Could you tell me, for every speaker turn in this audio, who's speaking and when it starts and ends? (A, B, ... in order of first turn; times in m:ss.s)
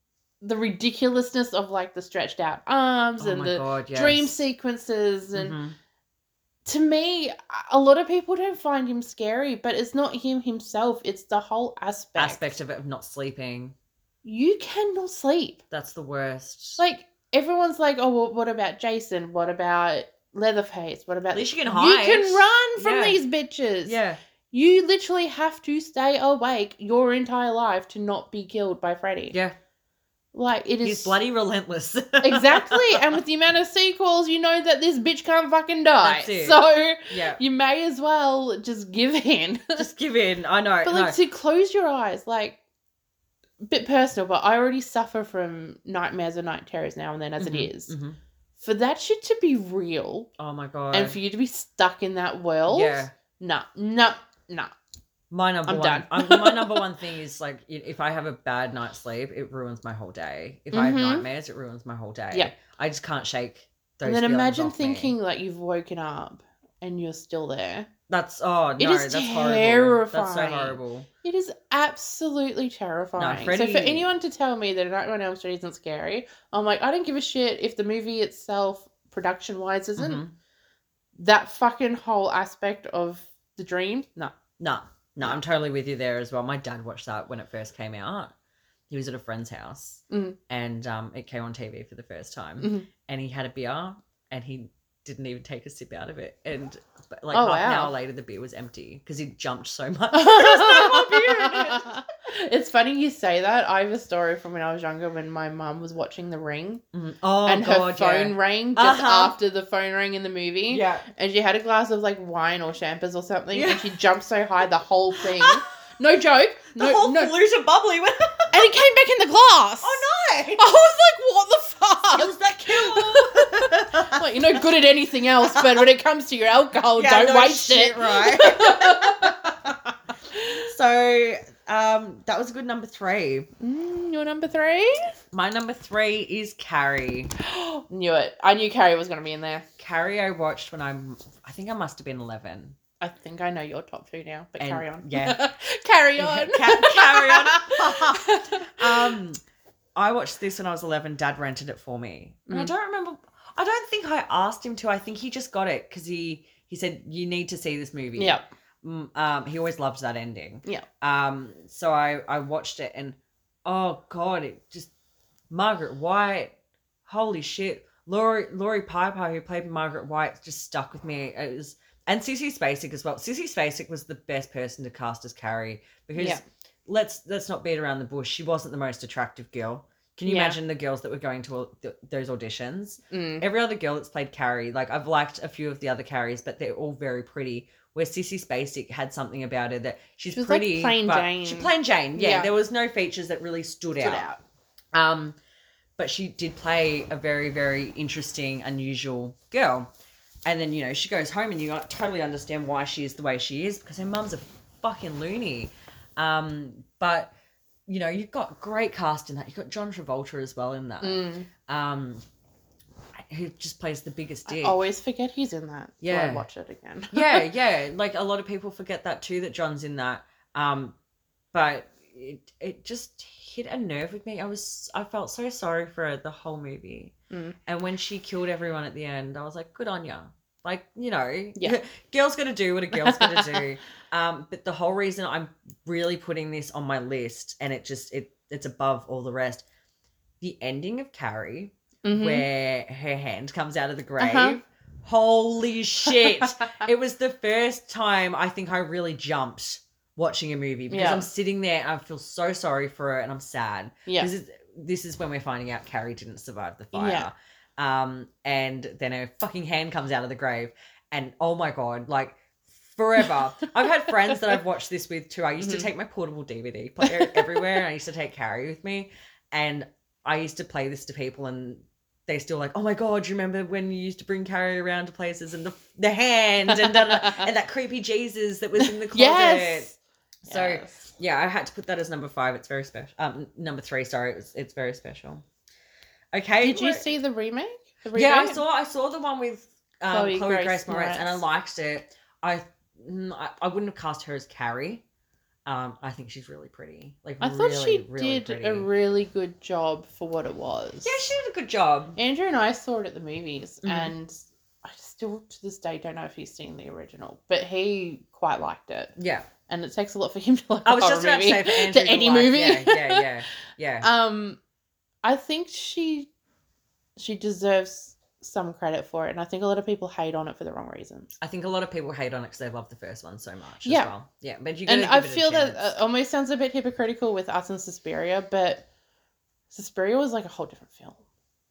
0:00.4-0:05.6 A
0:03.2-0:04.3 B
0:05.3-0:05.8 B
0:06.6-0:12.5 A
0:12.2-0:13.7 B
0:14.2-0:15.6 A
0:15.7-0:16.8 B
0:16.8-0:24.0 A
0:21.3-0:23.2 B
0:23.8-0:24.2 B
0:24.5-0:29.3 A
0:30.3-0:31.2 A
0:30.8-0:33.0 B
0:32.2-0:39.9 A
0:36.0-0:37.4 B
0:39.8-0:41.2 B
0:40.8-0:42.6 A
0:43.6-0:47.9 A
0:47.4-0:48.2 B
0:48.6-0:50.3 A
0:50.4-0:51.2 B
0:50.9-0:54.7 A
0:52.7-0:53.1 B
0:55.3-1:05.2 B
0:55.6-0:56.8 A
1:00.7-1:01.2 A
1:04.0-1:07.9 A
1:08.1-1:11.1 B
1:08.8-1:20.2 A
1:13.2-1:14.1 B
1:20.0-1:20.3 B
1:21.2-1:24.3 A
1:24.6-1:28.3 B
1:28.9-1:42.0 B
1:30.1-1:30.4 A
1:32.6-1:32.9 A
1:37.3-1:37.9 A
1:40.1-1:46.8 A
1:46.9-1:49.3 B
1:47.4-1:57.3 A
1:50.7-1:51.1 B
1:53.5-1:53.9 B
1:55.2-1:55.6 B
1:56.7-1:58.6 B
1:58.5-2:00.0 A
1:59.8-2:00.7 B
2:00.6-2:09.5 A
2:02.1-2:04.6 B
2:05.4-2:05.8 B
2:06.7-2:10.0 B
2:10.3-2:10.7 A
2:10.5-2:13.5 B
2:13.6-2:15.1 A
2:15.3-2:17.3 B
2:17.4-2:19.6 A
2:19.8-2:22.8 B
2:23.0-2:29.2 A
2:24.6-2:25.4 B
2:26.2-2:29.4 B
2:30.0-2:44.9 B
2:38.2-2:38.5 A
2:45.5-2:46.5 B
2:47.0-3:14.2 B
2:56.2-2:56.4 A
3:00.2-3:00.6 A
3:03.1-3:03.4 A
3:10.3-3:12.5 A
3:14.0-3:14.4 A
3:14.9-3:15.4 B
3:16.0-3:19.9 B
3:20.4-3:27.3 B
3:27.9-3:32.2 B
3:31.0-3:31.5 A
3:33.3-3:34.8 B
3:34.4-3:37.4 A
3:36.0-3:36.4 B
3:37.1-3:41.0 B
3:41.5-3:47.1 B
3:47.3-3:47.6 A
3:47.6-3:59.6 B
3:52.9-3:53.6 A
4:00.4-4:39.9 B
4:02.0-4:02.4 A
4:04.2-4:04.5 A
4:06.1-4:06.5 A
4:10.9-4:11.3 A
4:16.9-4:17.3 A
4:25.6-4:25.9 A
4:27.0-4:27.6 A
4:36.7-4:37.5 A
4:38.8-4:41.1 A
4:40.4-4:45.4 B
4:46.3-4:47.1 B
4:46.6-4:48.6 A
4:48.1-4:55.0 B
4:50.1-4:51.4 A
4:55.6-4:58.9 B
4:57.4-5:01.2 A
5:01.0-5:02.2 B
5:02.2-5:09.1 A
5:03.8-5:04.1 B
5:09.2-5:09.5 B
5:09.7-5:13.3 A
5:10.8-5:14.1 B
5:14.0-5:14.6 A
5:15.2-5:16.3 A
5:17.2-5:21.3 A
5:21.4-5:25.9 B
5:23.8-5:24.1 A
5:24.9-5:28.8 A
5:29.7-5:31.2 A